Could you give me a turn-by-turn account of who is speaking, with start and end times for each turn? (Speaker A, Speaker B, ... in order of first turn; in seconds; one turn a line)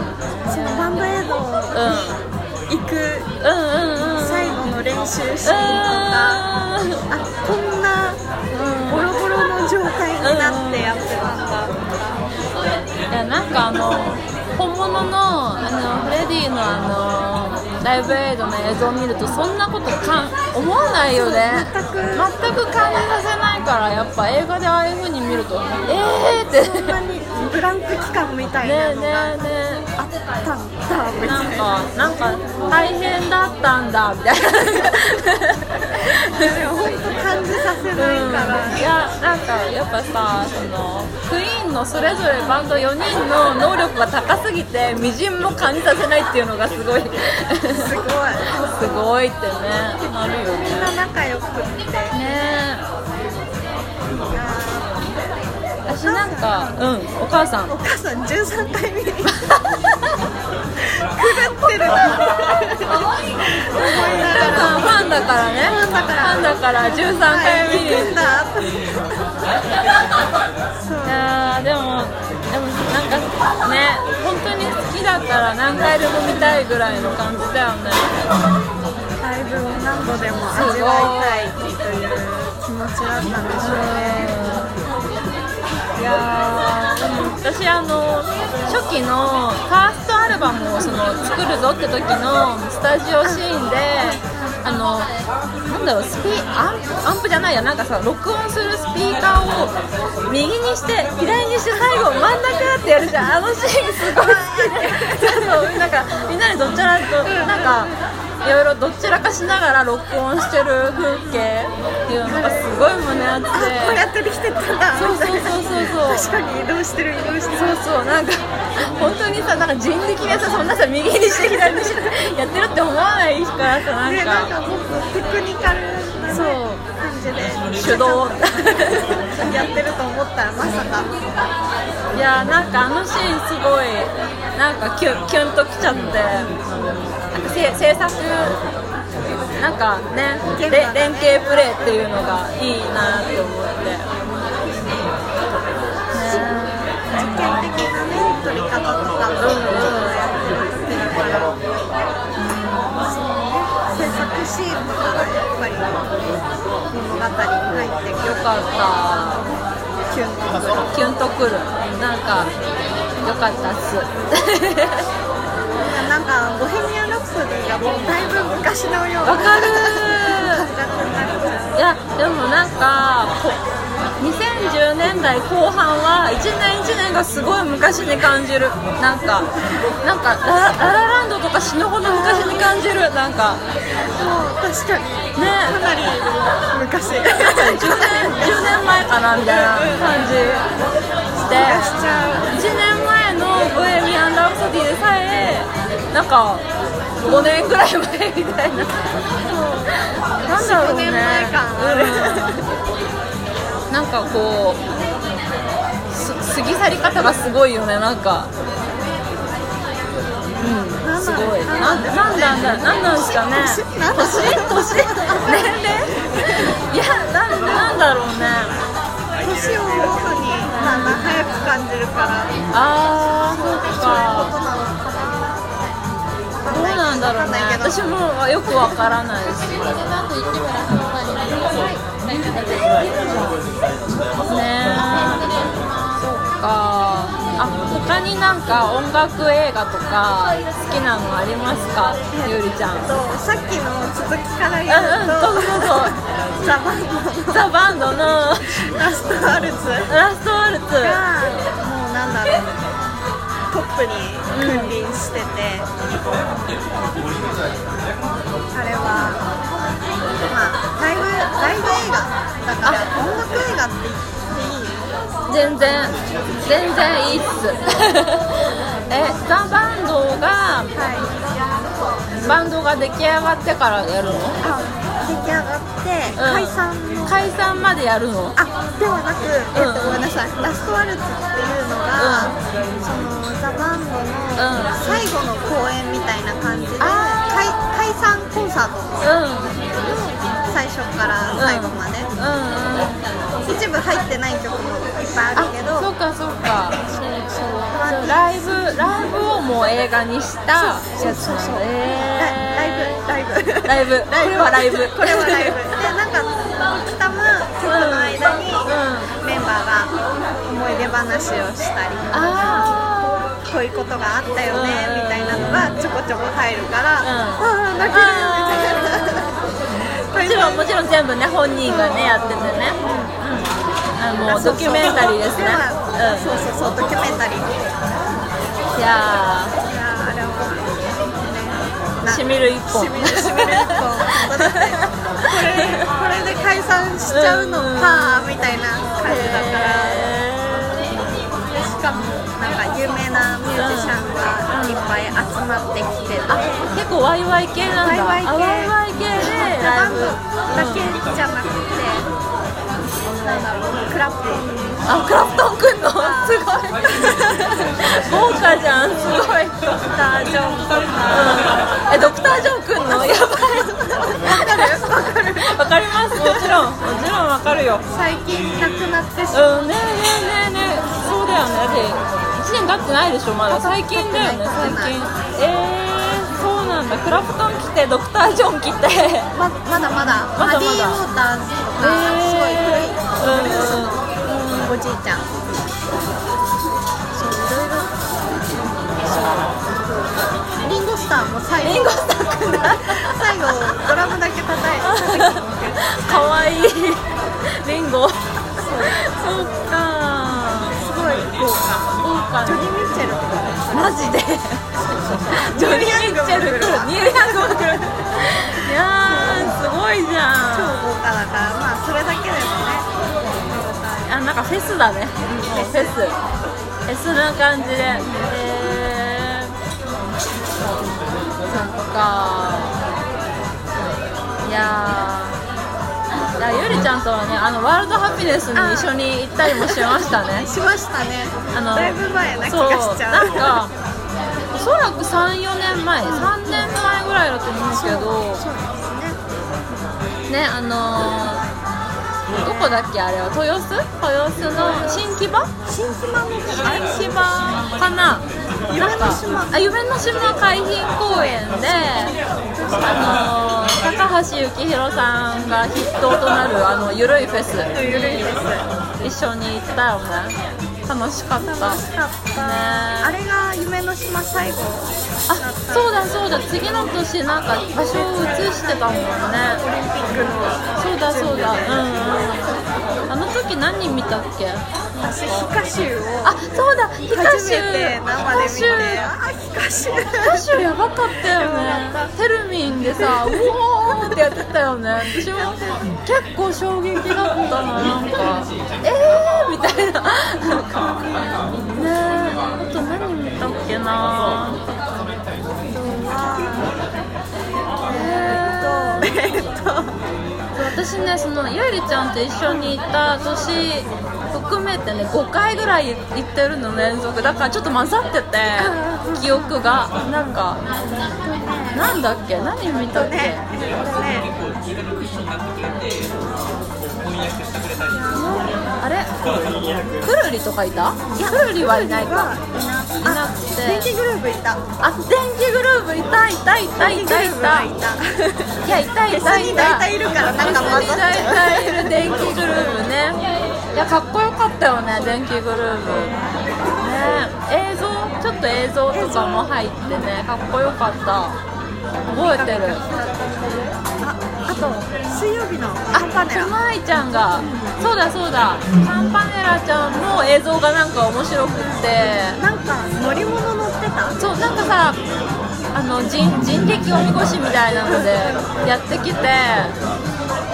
Speaker A: 0.5-1.1
Speaker B: 0.5-3.3
Speaker A: 1.7-2.2
Speaker A: 3.4-4.6
Speaker B: 4.1-6.4
Speaker A: 5.4-7.0
Speaker B: 7.1-8.2
Speaker A: 8.5-9.1
Speaker B: 8.9-12.2
Speaker A: 10.2-10.9
Speaker A: 13.1-26.9
Speaker B: 21.1-22.3
Speaker B: 26.4-29.3
Speaker A: 28.6-29.9
Speaker B: 30.4-31.9
Speaker A: 31.2-36.5
Speaker B: 32.4-32.8
Speaker B: 36.3-38.9
Speaker A: 38.0-47.9
Speaker B: 47.7-48.5
Speaker A: 48.6-50.9
Speaker B: 50.5-52.1
Speaker A: 52.1-52.8
Speaker B: 54.3-55.1
Speaker A: 55.9-57.7
Speaker B: 56.0-56.8
Speaker B: 57.7-59.4
Speaker A: 59.4-60.1
Speaker B: 61.0-69.3
Speaker A: 63.8-68.1
Speaker B: 70.8-71.3
Speaker A: 71.0-78.2
Speaker B: 79.2-84.4
Speaker A: 80.5-81.5
Speaker A: 83.6-84.7
Speaker A: 86.0-95.1
Speaker A: 95.7-99.8
Speaker A: 100.3-114.1
Speaker B: 104.1-105.7
Speaker B: 107.2-107.9
Speaker B: 112.2-112.9
Speaker B: 113.5-117.8
Speaker A: 115.0-116.3
Speaker A: 117.5-124.5
Speaker B: 121.3-122.1
Speaker B: 124.0-131.1
Speaker A: 126.3-126.8
Speaker A: 127.8-129.6
Speaker A: 132.1-136.7
Speaker A: 137.3-138.6
Speaker A: 139.6-144.1
Speaker B: 140.5-142.0
Speaker B: 144.6-145.0
Speaker A: 146.1-147.6
Speaker B: 146.2-151.6
Speaker A: 149.4-150.2
Speaker A: 152.4-153.2
Speaker B: 152.9-156.0
Speaker B: 156.9-158.5
Speaker A: 158.2-159.4
Speaker B: 160.1-161.1
Speaker A: 160.9-162.5
Speaker A: 163.2-165.1
Speaker B: 165.7-171.8
Speaker A: 169.2-170.7
Speaker A: 171.7-173.6
Speaker A: 174.2-179.5
Speaker A: 180.0-183.6
Speaker B: 182.0-182.8
Speaker B: 184.1-188.9
Speaker A: 185.3-185.8
Speaker A: 187.4-190.7
Speaker B: 189.4-190.2
Speaker B: 191.4-192.6
Speaker A: 191.4-192.0
Speaker A: 192.5-196.6
Speaker A: 197.2-199.0
Speaker B: 199.4-202.6
Speaker A: 200.4-202.6
Speaker A: 203.9-204.8
Speaker A: 206.1-208.5
Speaker A: 210.6-218.7
Speaker B: 211.0-216.7
Speaker B: 219.4-222.6
Speaker A: 220.7-221.4
Speaker A: 222.7-224.6
Speaker B: 223.4-225.7
Speaker B: 226.6-228.1
Speaker A: 226.7-233.6
Speaker A: 234.4-235.6
Speaker A: 236.1-243.1
Speaker B: 242.3-250.1
Speaker A: 244.9-246.2
Speaker A: 247.5-248.9
Speaker A: 250.1-251.2
Speaker B: 251.0-252.7
Speaker B: 253.7-255.9
Speaker A: 254.5-254.9
Speaker B: 258.7-259.4
Speaker B: 260.4-265.1
Speaker A: 265.5-270.9
Speaker B: 270.9-271.4
Speaker A: 272.4-274.6
Speaker B: 274.6-277.5
Speaker A: 276.4-278.6
Speaker B: 278.6-289.3
Speaker A: 279.7-280.2
Speaker A: 282.2-282.6
Speaker A: 284.6-285.0
Speaker A: 287.0-287.4
Speaker A: 289.2-289.7
Speaker B: 289.8-292.3
Speaker A: 291.6-293.2
Speaker B: 293.6-296.1
Speaker A: 295.6-297.1
Speaker B: 297.1-299.1
Speaker A: 297.9-303.2
Speaker B: 300.7-310.1
Speaker A: 303.8-305.8
Speaker A: 307.9-309.3
Speaker B: 310.6-313.0
Speaker A: 312.3-313.4
Speaker B: 313.6-319.5
Speaker A: 314.7-315.9
Speaker A: 317.2-319.4
Speaker B: 320.3-320.9
Speaker A: 320.4-326.6
Speaker B: 321.9-323.3
Speaker B: 324.4-327.7
Speaker A: 328.9-329.7
Speaker B: 329.8-340.3
Speaker A: 332.3-336.0
Speaker A: 337.3-338.5
Speaker A: 339.2-341.2
Speaker B: 341.6-346.9
Speaker A: 343.7-345.1
Speaker A: 346.5-351.1
Speaker B: 348.0-352.3
Speaker B: 353.4-355.1
Speaker A: 355.1-360.0
Speaker B: 356.1-358.0
Speaker B: 360.1-362.3
Speaker A: 361.3-368.0
Speaker B: 363.1-365.8
Speaker B: 366.3-366.8
Speaker B: 368.1-369.7
Speaker A: 369.5-379.5
Speaker B: 373.7-375.2
Speaker B: 379.5-385.5
Speaker A: 380.5-381.2
Speaker A: 382.0-384.8
Speaker B: 387.3-396.9
Speaker A: 391.8-393.5
Speaker A: 395.0-400.9
Speaker B: 398.8-400.0
Speaker B: 400.9-404.4
Speaker A: 402.2-402.9
Speaker A: 403.9-404.8
Speaker B: 405.2-409.8
Speaker A: 405.5-411.1
Speaker B: 410.7-414.3
Speaker A: 414.2-416.4
Speaker B: 415.4-416.2
Speaker A: 417.1-419.7
Speaker B: 418.2-418.5
Speaker A: 421.7-423.0
Speaker A: 424.6-425.6
Speaker A: 426.6-430.7
Speaker B: 428.7-433.8
Speaker A: 431.7-433.9
Speaker A: 434.7-438.6
Speaker B: 436.2-436.5
Speaker B: 437.9-439.4
Speaker A: 440.5-441.6
Speaker B: 442.6-443.1
Speaker A: 442.6-445.7
Speaker B: 444.8-445.2
Speaker B: 445.9-447.5
Speaker A: 446.7-452.3
Speaker B: 448.9-449.9
Speaker B: 451.3-452.1
Speaker B: 452.7-453.5
Speaker A: 453.0-458.6
Speaker B: 457.9-458.9
Speaker A: 459.2-462.0
Speaker B: 461.6-466.3
Speaker A: 462.6-463.3
Speaker A: 465.5-469.8
Speaker B: 468.0-472.1
Speaker A: 471.0-472.8
Speaker A: 473.3-475.7
Speaker B: 475.1-476.6
Speaker A: 476.4-479.2
Speaker B: 477.3-480.8
Speaker A: 480.4-491.1
Speaker B: 481.5-482.3
Speaker B: 482.9-484.6
Speaker B: 485.2-486.1
Speaker B: 491.0-491.4
Speaker A: 491.9-494.8
Speaker B: 495.9-496.9
Speaker B: 498.0-500.2
Speaker A: 498.1-499.3
Speaker A: 500.7-510.8
Speaker B: 508.8-509.8
Speaker B: 510.3-510.6
Speaker B: 511.2-512.1
Speaker A: 511.9-513.6
Speaker B: 512.9-514.5
Speaker B: 518.1-519.0
Speaker A: 518.3-519.3
Speaker A: 520.2-522.5
Speaker B: 521.3-524.8
Speaker A: 523.2-524.1
Speaker A: 525.0-527.9
Speaker B: 527.0-533.0
Speaker A: 528.8-533.4
Speaker A: 533.9-536.3
Speaker B: 536.0-536.7
Speaker A: 536.9-541.6
Speaker B: 539.1-539.7
Speaker A: 542.3-543.0
Speaker B: 542.3-546.7
Speaker A: 546.1-552.6
Speaker B: 547.6-547.9
Speaker B: 551.8-554.4
Speaker A: 554.4-555.2
Speaker A: 555.9-560.0
Speaker B: 558.1-558.6